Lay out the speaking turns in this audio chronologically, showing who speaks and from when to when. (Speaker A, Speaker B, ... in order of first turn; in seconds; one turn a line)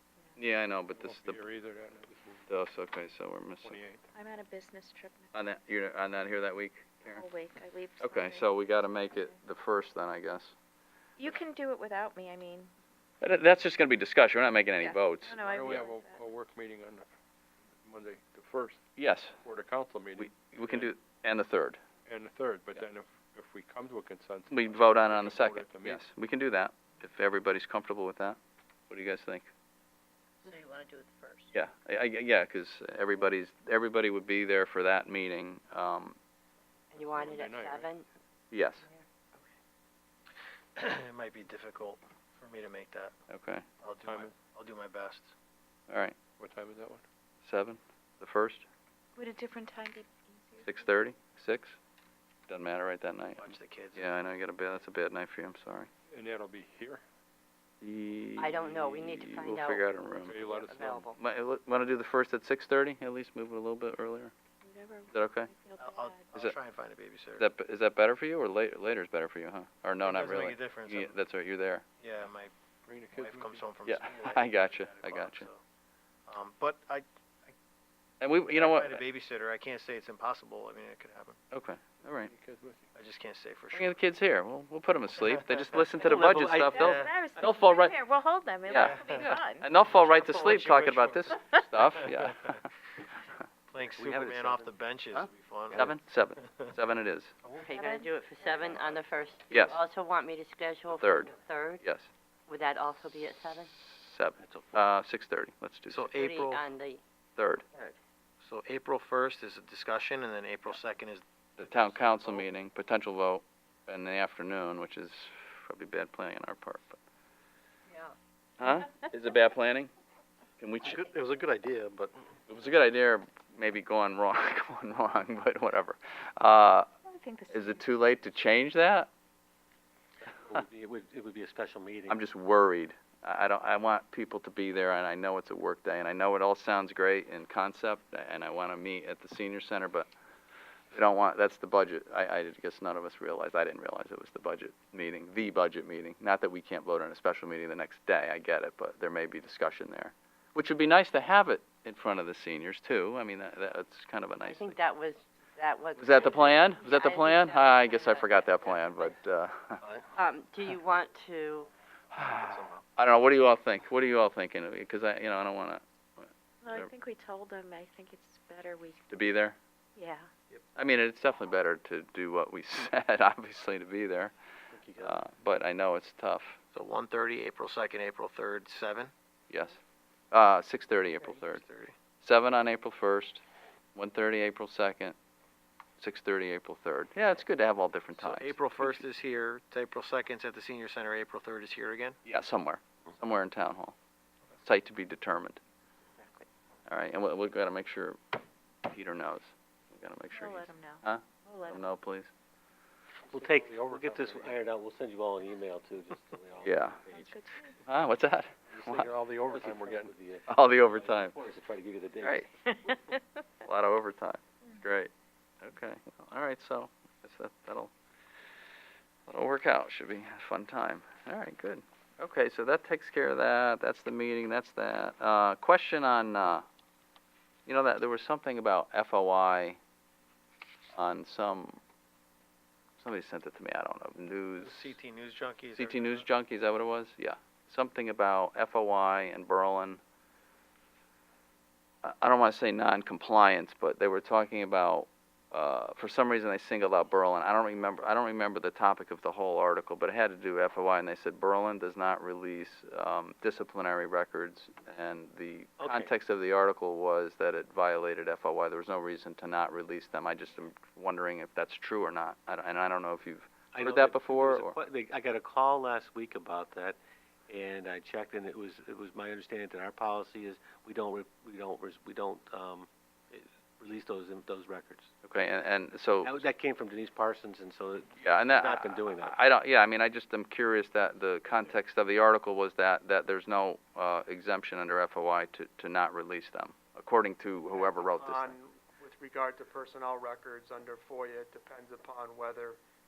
Speaker A: 0.4-1.4
Speaker B: 1.0-2.4
Speaker A: 2.5-3.8
Speaker B: 3.6-4.1
Speaker C: 4.1-5.3
Speaker A: 5.3-7.3
Speaker C: 7.1-9.3
Speaker A: 8.0-10.5
Speaker C: 11.2-12.7
Speaker A: 13.2-15.8
Speaker C: 14.8-16.2
Speaker B: 15.2-17.1
Speaker B: 17.8-18.8
Speaker A: 19.0-19.3
Speaker B: 19.4-20.9
Speaker A: 20.2-21.8
Speaker B: 22.1-26.1
Speaker A: 24.5-28.4
Speaker A: 28.9-29.5
Speaker C: 30.4-31.5
Speaker A: 31.5-36.2
Speaker D: 36.9-38.1
Speaker B: 37.0-37.9
Speaker A: 38.5-38.8
Speaker D: 38.8-39.5
Speaker E: 40.8-43.1
Speaker A: 43.3-43.6
Speaker E: 43.8-45.3
Speaker B: 44.0-44.3
Speaker A: 45.9-46.2
Speaker B: 46.4-47.0
Speaker A: 47.4-48.7
Speaker C: 49.2-50.9
Speaker A: 50.6-51.8
Speaker A: 52.5-55.9
Speaker E: 53.4-54.1
Speaker B: 56.1-57.0
Speaker A: 57.8-60.4
Speaker D: 58.4-59.8
Speaker B: 60.2-61.0
Speaker D: 60.4-61.2
Speaker A: 61.1-64.3
Speaker C: 64.6-66.3
Speaker A: 65.1-65.5
Speaker E: 65.8-67.5
Speaker A: 67.4-71.8
Speaker E: 70.0-71.2
Speaker E: 72.0-72.5
Speaker B: 72.9-73.7
Speaker E: 73.1-75.6
Speaker A: 73.8-75.5
Speaker E: 76.3-77.5
Speaker A: 78.2-79.0
Speaker E: 78.5-81.4
Speaker A: 81.5-82.3
Speaker B: 82.2-82.9
Speaker E: 82.9-84.0
Speaker A: 83.7-88.0
Speaker F: 86.1-86.8
Speaker C: 86.7-89.7
Speaker E: 86.7-87.1
Speaker A: 88.7-92.7
Speaker E: 88.7-89.3
Speaker E: 89.8-92.6
Speaker E: 93.7-95.9
Speaker F: 93.8-94.7
Speaker A: 95.7-97.3
Speaker D: 97.6-101.8
Speaker C: 97.7-98.6
Speaker A: 99.5-99.8
Speaker A: 101.0-102.1
Speaker D: 102.5-103.7
Speaker A: 103.8-106.1
Speaker F: 104.4-104.9
Speaker E: 105.9-106.7
Speaker D: 106.1-107.0
Speaker A: 107.4-107.6
Speaker E: 108.4-112.5
Speaker A: 111.6-117.0
Speaker A: 118.6-119.9
Speaker A: 120.6-121.1
Speaker E: 120.8-122.1
Speaker A: 122.5-126.9
Speaker C: 127.0-127.9
Speaker A: 127.5-129.1
Speaker F: 130.4-132.2
Speaker A: 132.1-140.1
Speaker A: 140.9-154.8
Speaker D: 154.4-159.2
Speaker A: 156.0-159.8
Speaker D: 160.2-161.7
Speaker A: 162.1-166.9
Speaker E: 162.2-162.8
Speaker C: 166.6-169.1
Speaker A: 169.1-169.6
Speaker C: 170.0-170.3
Speaker A: 170.8-174.3
Speaker F: 174.7-175.1
Speaker A: 175.0-176.6
Speaker E: 176.7-179.1
Speaker A: 179.5-179.8
Speaker A: 180.3-181.6
Speaker E: 181.3-181.9
Speaker A: 182.2-183.4
Speaker A: 183.9-185.2
Speaker A: 186.0-189.0
Speaker E: 188.2-192.2
Speaker A: 192.3-194.0
Speaker A: 194.6-195.6
Speaker A: 196.9-198.2
Speaker A: 198.8-202.3
Speaker C: 200.3-201.8
Speaker F: 203.3-207.3
Speaker B: 203.4-204.5
Speaker A: 206.6-207.0
Speaker C: 207.1-207.8
Speaker A: 207.9-209.1
Speaker F: 208.7-212.9
Speaker B: 209.7-210.1
Speaker A: 210.5-211.3
Speaker A: 212.2-212.5
Speaker A: 213.6-215.1
Speaker A: 215.6-217.9
Speaker A: 219.3-226.7
Speaker A: 227.7-229.8
Speaker A: 231.0-231.8
Speaker A: 233.0-235.0
Speaker E: 234.6-236.3
Speaker A: 235.8-240.0
Speaker A: 242.0-264.8
Speaker F: 255.8-256.1
Speaker F: 263.7-275.1
Speaker A: 275.2-276.4
Speaker F: 276.2-279.4
Speaker A: 278.2-288.6
Speaker G: 287.7-292.8